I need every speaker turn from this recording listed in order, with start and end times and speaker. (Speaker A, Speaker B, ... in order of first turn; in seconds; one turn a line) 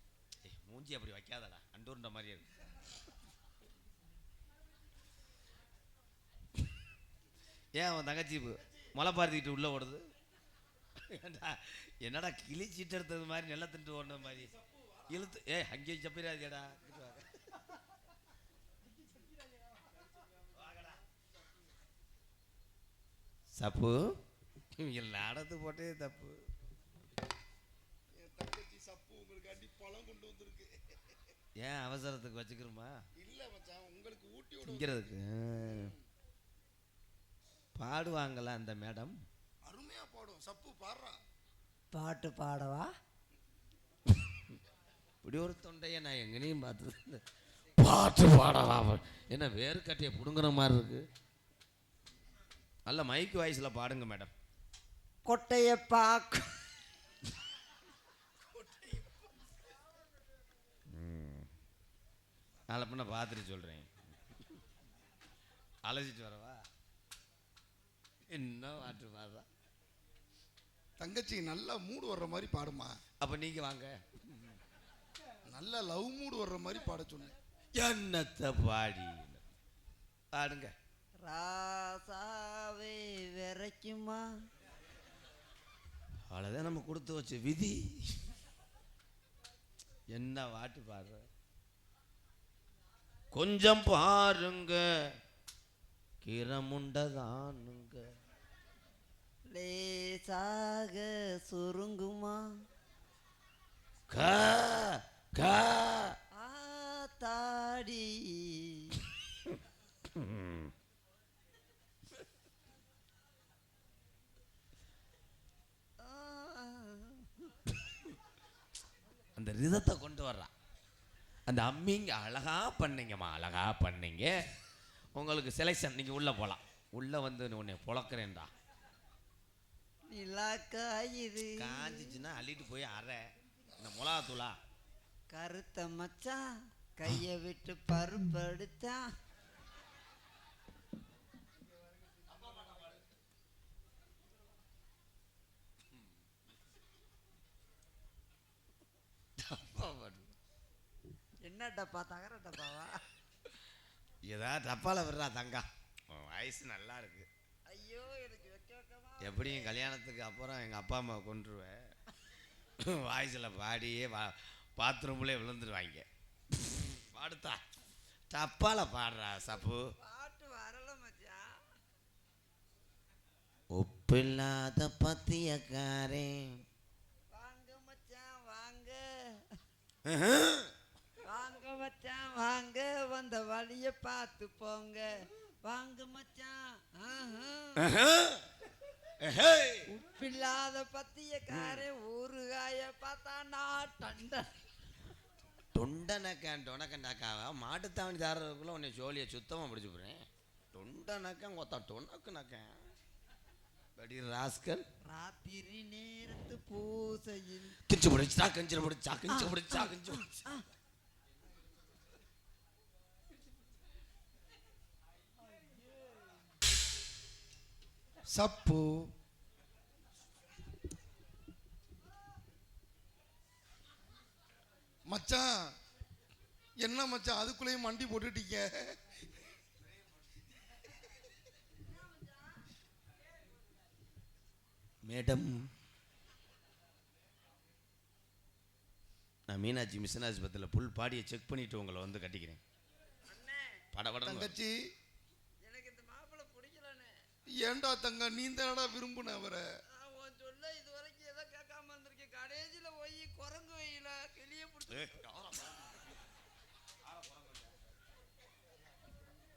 Speaker A: 0.4-2.5
Speaker A: 7.8-10.1
Speaker A: 10.9-14.5
Speaker A: 15.1-17.4
Speaker A: 20.6-20.9
Speaker A: 23.5-24.2
Speaker A: 24.7-26.4
Speaker B: 28.1-31.2
Speaker A: 31.6-33.0
Speaker B: 33.2-35.1
Speaker A: 34.6-35.9
Speaker A: 37.8-39.1
Speaker B: 39.6-41.2
Speaker C: 41.9-42.9
Speaker A: 45.2-47.2
Speaker A: 47.8-51.1
Speaker A: 52.9-54.3
Speaker C: 55.2-56.5
Speaker B: 58.7-59.0
Speaker A: 60.9-61.5
Speaker A: 62.7-64.4
Speaker A: 65.8-66.6
Speaker A: 68.3-69.5
Speaker B: 71.0-73.0
Speaker A: 73.2-74.6
Speaker B: 75.5-77.3
Speaker A: 77.7-79.4
Speaker A: 80.3-80.7
Speaker C: 81.2-84.3
Speaker A: 86.3-88.2
Speaker A: 90.1-91.2
Speaker A: 93.3-94.8
Speaker A: 96.2-98.1
Speaker C: 99.5-102.5
Speaker A: 104.1-106.2
Speaker C: 106.3-109.0
Speaker A: 110.1-110.7
Speaker C: 116.0-117.5
Speaker A: 119.3-120.5
Speaker A: 121.5-124.3
Speaker A: 125.1-128.5
Speaker C: 130.1-132.1
Speaker A: 131.6-133.2
Speaker A: 133.8-134.6
Speaker C: 135.3-136.4
Speaker C: 137.0-139.1
Speaker A: 149.4-150.3
Speaker C: 151.4-153.0
Speaker A: 154.2-157.3
Speaker C: 157.7-159.8
Speaker A: 159.2-161.8
Speaker A: 162.8-166.1
Speaker A: 166.9-167.6
Speaker A: 168.3-169.8
Speaker C: 170.0-171.4
Speaker A: 173.7-176.6
Speaker C: 177.3-179.6
Speaker A: 180.0-180.7
Speaker C: 181.2-187.8
Speaker A: 187.8-188.5
Speaker A: 189.2-189.9
Speaker C: 189.9-194.5
Speaker A: 191.5-191.8
Speaker A: 195.7-202.8
Speaker A: 204.0-204.8
Speaker C: 205.0-207.8
Speaker A: 207.9-210.4
Speaker C: 209.3-210.6
Speaker B: 218.3-219.1
Speaker B: 225.1-225.7
Speaker B: 226.8-229.0
Speaker A: 235.0-235.7
Speaker A: 239.5-242.6
Speaker C: 243.2-243.8
Speaker A: 243.9-244.6
Speaker B: 244.2-244.7
Speaker C: 245.6-247.1
Speaker B: 247.5-249.6
Speaker C: 249.9-255.2
Speaker A: 254.9-256.1
Speaker A: 257.0-257.9